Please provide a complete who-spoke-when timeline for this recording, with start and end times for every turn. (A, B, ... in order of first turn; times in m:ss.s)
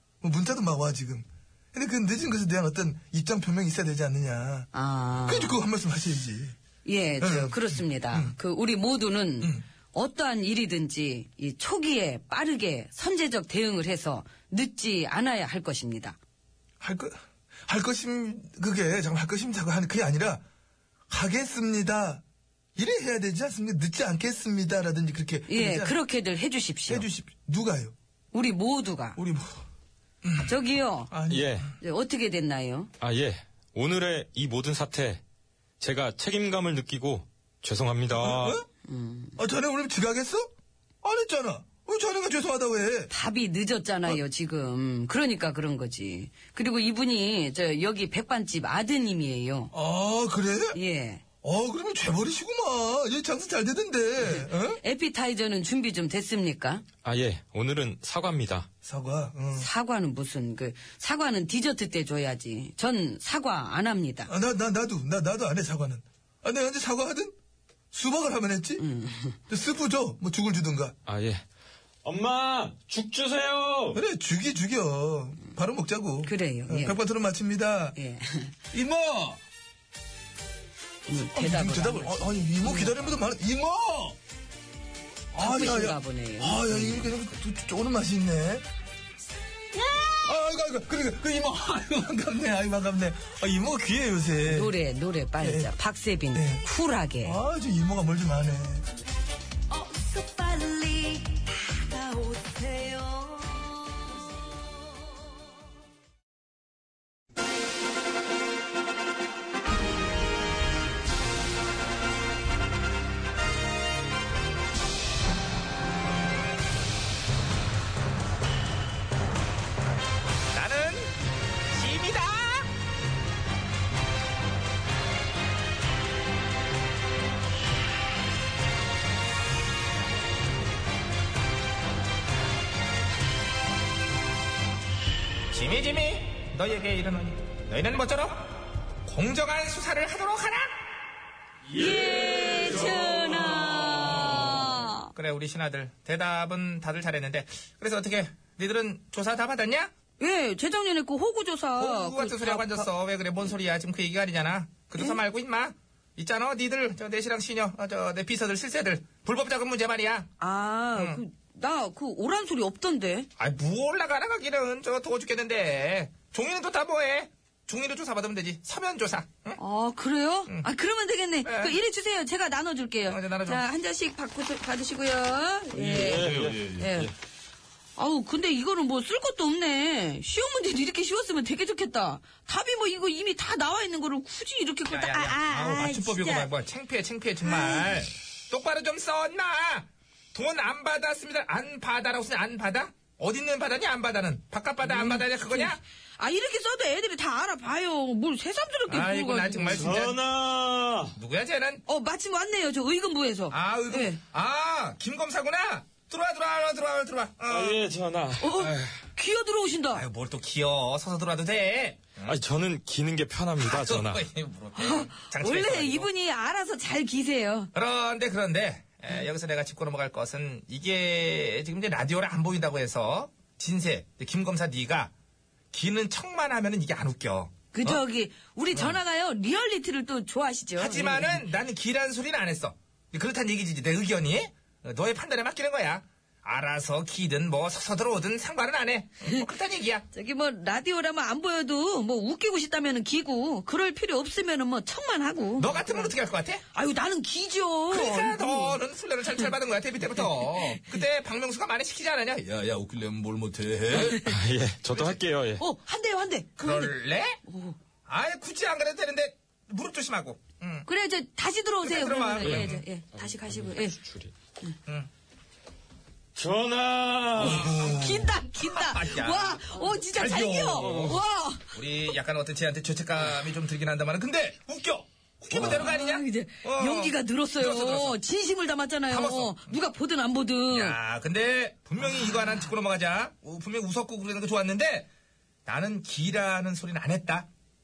0:00.2-0:04.7 A
0:04.7-0:05.6 B
0:05.2-0:06.6 A
0:06.8-0:16.2 B
0:07.2-0:08.4 A
0:16.8-0:20.4 A
0:21.1-0:22.2 A
0:22.8-0:26.0 A
0:25.5-0:27.1 B
0:26.9-0:27.9 A
0:28.3-0:29.2 B
0:29.2-0:29.6 A
0:30.2-0:30.6 A
0:30.4-0:31.1 B
0:31.1-0:31.7 A
0:31.3-0:31.7 C
0:31.8-0:32.9 B
0:33.0-0:35.2 C
0:35.8-0:38.6 C
0:38.1-0:38.6 A
0:38.8-0:39.4 B
0:39.4-0:40.5 A
0:41.0-0:43.1 A
0:43.1-0:49.7 B
0:49.7-0:50.8 A
0:50.7-0:51.2 B
0:51.4-0:54.8 A
0:54.2-0:56.8 B
0:57.0-0:58.7 C
0:58.8-0:59.7 A
0:59.5-1:04.3 B
1:04.3-1:07.3 A
1:07.9-1:08.8 A
1:08.8-1:09.4 B
1:09.5-1:11.0 A
1:11.0-1:11.4 C
1:12.0-1:14.0 C
1:13.9-1:18.0 A
1:16.2-1:17.0 B
1:17.9-1:18.6 B
1:18.7-1:19.4 D
1:18.8-1:19.2 A
1:21.1-1:23.2 B
1:21.1-1:24.2 A
1:25.3-1:28.6 A
1:25.4-1:27.1 B
1:29.7-1:30.2 B
1:30.2-1:34.7 A
1:34.5-1:37.4 B
1:35.4-1:35.7 A
1:36.3-1:36.6 A
1:37.2-1:38.9 A
1:39.7-1:44.2 B
2:00.5-2:01.1 D
2:01.7-2:02.7 D
2:15.5-2:18.5 D
2:19.0-2:20.8 D
2:21.7-2:25.1 B
2:25.1-2:29.9 D
2:30.2-2:32.9 B
2:31.8-2:40.3 D
2:40.4-2:43.3 B
2:40.9-2:41.2 D
2:43.4-2:49.6 D
2:49.6-2:57.1 B
2:51.4-2:51.8 D
2:53.0-2:53.6 D
2:55.7-2:57.1 C
2:58.0-3:06.5 B
3:04.9-3:15.8 D
3:07.4-3:08.0 B
3:14.8-3:19.9 B
3:18.9-3:20.2 D
3:19.7-3:21.1 C
3:21.2-3:21.8 D
3:21.8-3:24.2 B
3:23.5-3:27.8 D
3:27.5-3:29.0 C
3:28.4-3:30.0 B
3:29.9-3:32.4 D
3:32.2-3:34.2 C
3:33.6-3:36.1 D
3:34.8-3:37.7 B
3:37.7-3:45.1 D
3:45.7-3:48.0 D
3:47.7-3:51.4 B
3:48.7-3:49.0 D
3:50.8-4:00.0 D
4:00.1-4:06.1 B
4:05.6-4:06.6 D
4:06.7-4:08.8 B
4:07.9-4:12.7 D
4:10.2-4:11.0 B
4:12.6-4:14.1 A
4:13.9-4:14.2 D
4:13.9-4:15.6 C
4:14.0-4:14.4 B
4:15.6-4:16.9 B
4:16.6-4:17.4 D
4:17.5-4:17.7 B
4:18.1-4:20.8 D
4:20.8-4:24.0 B
4:21.8-4:22.8 D
4:22.4-4:24.3 C
4:26.3-4:27.8 C
4:27.4-4:28.4 A
4:27.6-4:31.7 B
4:28.5-4:31.2 D
4:30.8-4:31.2 C
4:31.7-4:38.2 D
4:35.5-4:41.0 B
4:39.1-4:39.8 D
4:40.7-4:45.1 D
4:45.6-4:47.5 D